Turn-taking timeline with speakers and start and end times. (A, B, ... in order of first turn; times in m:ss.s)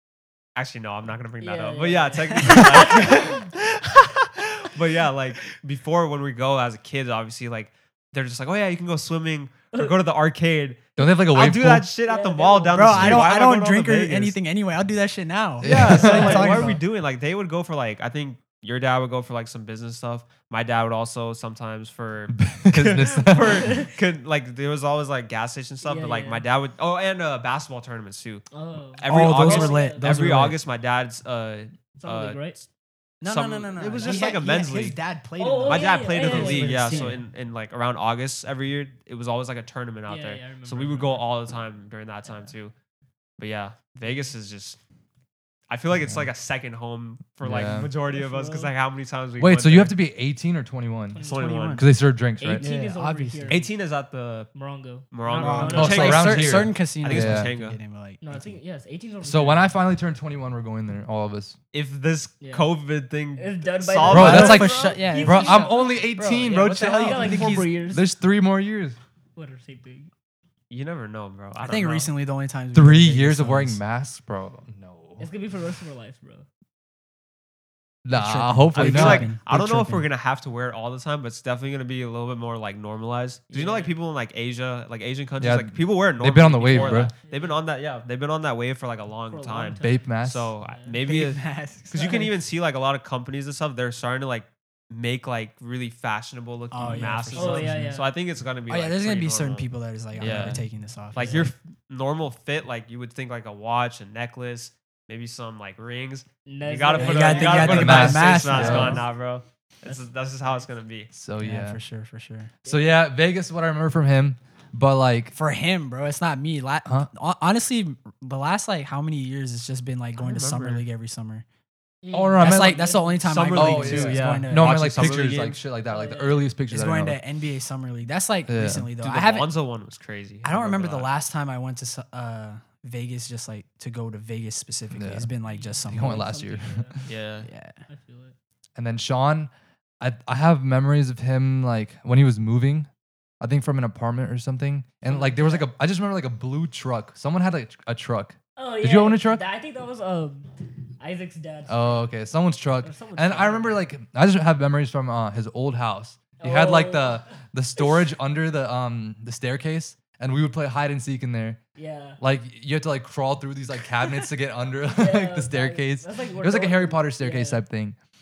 0:00.6-0:03.4 A
0:01.4-0:03.5 B
0:02.6-0:02.9 C
0:04.4-0:14.4 A
0:11.0-0:11.9 D
0:12.0-0:13.0 B
0:12.7-0:16.8 C
0:13.0-0:13.2 D
0:15.6-0:16.5 D
0:15.6-0:32.6 A
0:16.0-0:16.8 B
0:22.3-0:23.7 D
0:23.4-0:23.9 B
0:25.8-0:26.4 B
0:28.5-0:30.1 B
0:29.0-0:30.6 C
0:32.0-0:32.6 B
0:33.2-0:37.2 C
0:33.2-0:35.0 A
0:34.0-0:34.3 B
0:35.4-0:37.2 B
0:35.6-0:42.7 A
0:40.1-0:41.2 B
0:42.2-0:42.5 B
0:43.4-0:44.8 A
0:44.0-0:44.3 B
0:45.7-0:50.0 A
0:45.9-0:46.3 D
0:47.4-0:47.9 D
0:48.1-0:48.7 B
0:49.4-0:51.2 D
0:51.1-0:51.5 B
0:51.2-0:51.8 A
0:51.2-0:51.9 C
0:51.7-0:52.6 D
0:52.4-0:53.7 B
0:52.6-0:53.7 C
0:53.5-0:54.5 A
0:54.5-0:56.3 B
0:55.1-0:57.8 A
0:55.3-0:58.6 C
0:55.7-0:57.5 D
0:58.2-0:59.7 B
0:59.2-1:01.6 D
1:01.7-1:04.7 A
1:02.4-1:02.7 B
1:03.4-1:06.1 B
1:04.1-1:07.7 C
1:04.1-1:09.0 D
1:06.9-1:08.1 B
1:09.3-1:10.1 B
1:10.7-1:12.1 A
1:11.6-1:13.8 C
1:12.7-1:15.3 D
1:15.2-1:16.4 B
1:18.0-1:19.3 D
1:18.1-1:20.0 C
1:18.7-1:51.1 A
1:23.5-1:23.9 B
1:25.4-1:27.1 D
1:26.7-1:27.6 B
1:29.3-1:30.0 B
1:29.8-1:30.5 D
1:30.6-1:31.0 B
1:31.0-1:32.4 C
1:36.7-1:37.9 C
1:36.8-1:38.1 B
1:38.7-1:41.5 C
1:40.2-1:40.6 D
1:41.1-1:41.5 B
1:46.4-1:49.1 B
1:46.9-1:49.0 C
1:47.5-1:49.0 D
1:49.8-1:50.7 B
1:51.1-1:51.8 D
1:51.4-1:52.5 C
1:52.6-1:53.0 B
1:52.6-1:55.4 D
1:55.3-2:01.4 C
2:00.2-2:00.8 A
2:02.0-2:03.2 B
2:02.1-2:02.9 D
2:02.4-2:05.1 C
2:03.2-2:05.6 A
2:03.5-2:07.2 D
2:05.8-2:06.5 B
2:06.7-2:09.5 C
2:08.5-2:08.9 D
2:09.0-2:11.1 A
2:10.4-2:16.3 C
2:14.9-2:15.3 D
2:15.5-2:17.0 B
2:15.9-2:17.1 D
2:17.1-2:17.5 A
2:17.4-2:17.8 C
2:17.9-2:18.3 B
2:18.8-2:29.4 D
2:25.0-2:25.7 B
2:28.6-2:32.1 B
2:31.7-2:41.6 D
2:32.8-2:33.8 B
2:36.4-2:38.0 B
2:41.8-2:42.2 B
2:42.2-2:48.0 D
2:44.9-2:47.6 B